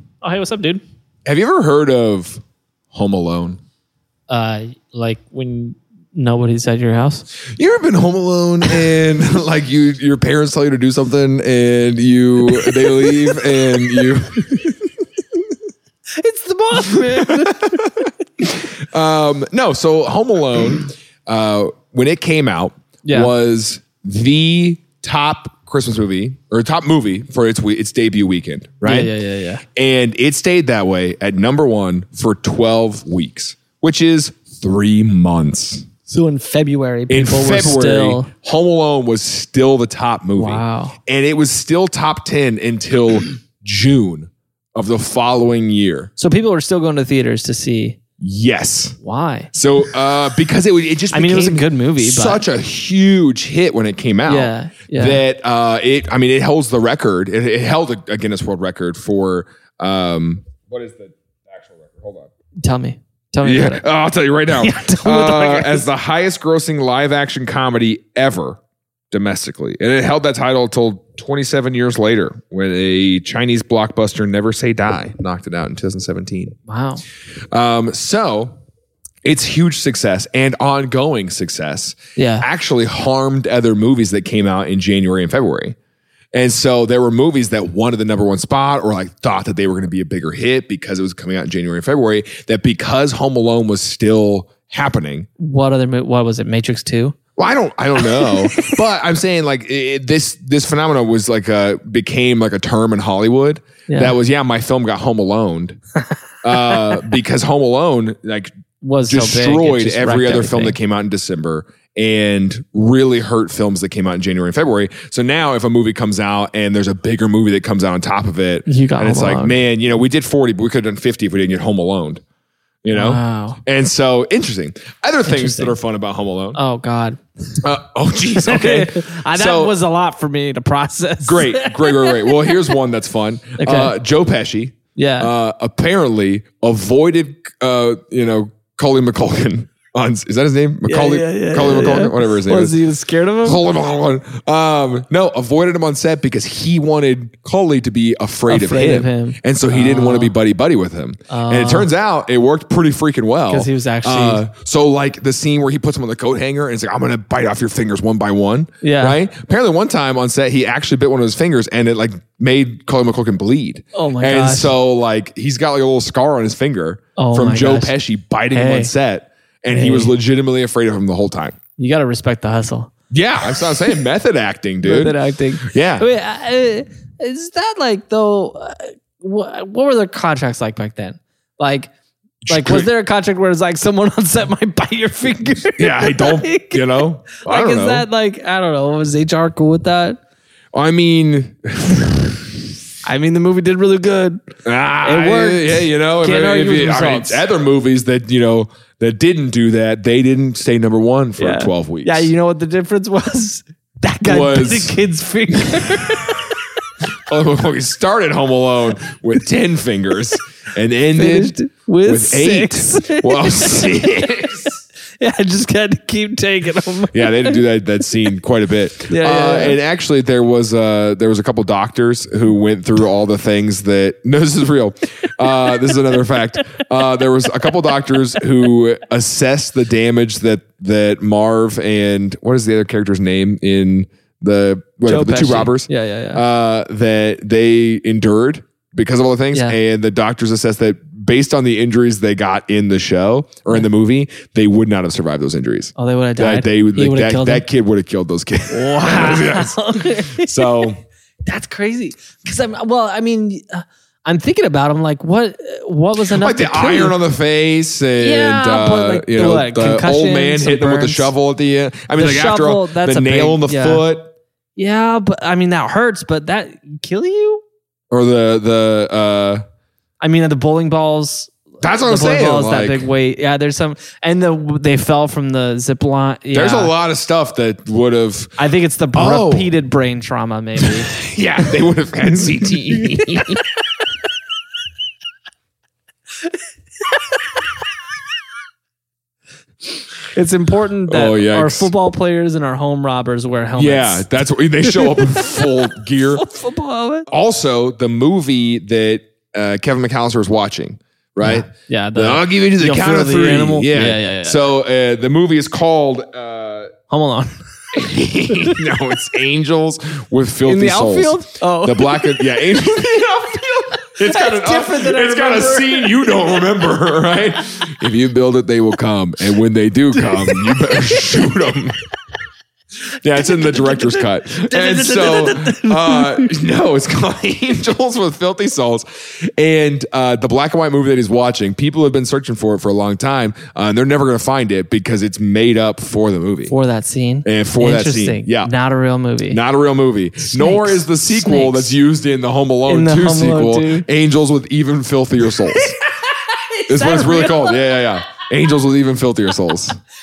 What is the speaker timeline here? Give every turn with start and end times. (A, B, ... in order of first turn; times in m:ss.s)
0:00.2-0:00.8 A
0:01.2-0:03.6 B
0:04.3-0:07.3 A
0:07.5-0:14.8 B
0:12.5-0:13.4 A
0:16.2-0:17.8 A
0:16.9-0:29.1 B
0:23.1-0:23.3 A
0:28.8-0:29.6 A
0:29.8-0:35.9 B
0:36.1-0:38.3 A
0:37.1-0:46.1 B
0:40.4-0:41.0 A
0:46.2-0:48.0 A
0:48.2-0:49.0 B
0:49.0-0:49.5 A
0:49.5-1:02.3 B
0:51.1-0:52.5 A
0:54.3-0:55.2 A
1:02.6-1:03.8 A
1:03.4-1:08.6 B
1:04.5-1:05.9 A
1:09.1-1:16.6 B
1:16.7-1:17.0 A
1:17.5-1:18.5 B
1:19.2-1:25.8 B
1:22.2-1:22.5 A
1:26.3-1:35.3 B
1:35.4-1:37.2 A
1:37.4-1:45.8 B
1:38.0-1:38.8 A
1:43.9-1:44.2 A
1:46.4-1:48.5 B
1:46.5-1:47.0 A
1:48.8-1:50.8 A
1:49.1-2:02.2 B
1:58.7-1:59.6 A
2:02.8-2:06.6 B
2:02.9-2:03.6 A
2:05.3-2:05.8 A
2:06.6-2:07.2 A
2:07.6-2:09.8 B
2:08.3-2:12.8 A
2:11.2-2:22.8 B
2:13.6-2:14.0 A
2:15.0-2:15.3 A
2:20.8-2:23.6 A
2:23.4-2:51.6 B
2:28.5-2:30.4 A
2:31.3-2:31.9 A
2:33.5-2:34.4 A
2:38.8-2:39.2 A
2:44.0-2:44.8 A
2:47.2-2:47.9 A
2:48.5-2:48.9 A
2:49.7-2:50.2 A
2:51.8-2:52.9 A
2:53.1-2:56.1 B
2:54.8-3:01.9 A
3:02.4-3:02.9 B
3:02.5-3:10.2 A
3:05.8-3:08.1 B
3:10.7-3:12.5 B
3:13.0-3:14.4 A
3:14.6-3:22.3 B
3:15.0-3:17.4 A
3:21.4-3:26.8 A
3:24.2-3:25.0 B
3:27.2-3:34.7 B
3:31.2-3:37.6 A
3:37.1-4:11.0 B
3:39.1-3:39.8 A
3:55.1-3:56.4 A
4:06.0-4:07.7 A
4:08.7-4:10.9 A
4:11.5-4:17.2 A
4:16.3-4:24.3 B
4:18.2-4:21.3 A
4:22.2-4:24.0 A
4:24.8-4:27.6 A
4:28.1-4:29.6 B
4:30.2-4:31.5 A
4:31.8-4:33.1 B
4:32.0-4:36.9 A
4:36.5-4:38.6 B
4:38.6-4:41.1 A
4:39.1-4:39.7 B
4:40.8-4:43.6 B
4:42.4-4:43.2 A
4:47.0-4:47.7 A
4:50.3-4:54.3 A
4:51.1-4:51.9 B
4:53.8-4:56.4 B
4:54.8-4:57.3 A
4:57.3-5:06.9 B
5:01.4-5:04.7 A
5:07.1-5:07.6 A
5:07.9-5:22.0 B
5:08.5-5:08.8 A
5:10.7-5:13.3 A
5:13.9-5:16.8 A
5:20.2-5:21.5 A
5:23.2-5:36.7 B
5:23.4-5:26.6 A
5:36.7-5:39.6 A
5:37.4-5:38.7 B
5:39.5-5:45.9 B
5:40.4-5:42.0 A
5:42.9-5:44.1 A
5:45.4-5:48.0 A
5:46.9-5:50.0 B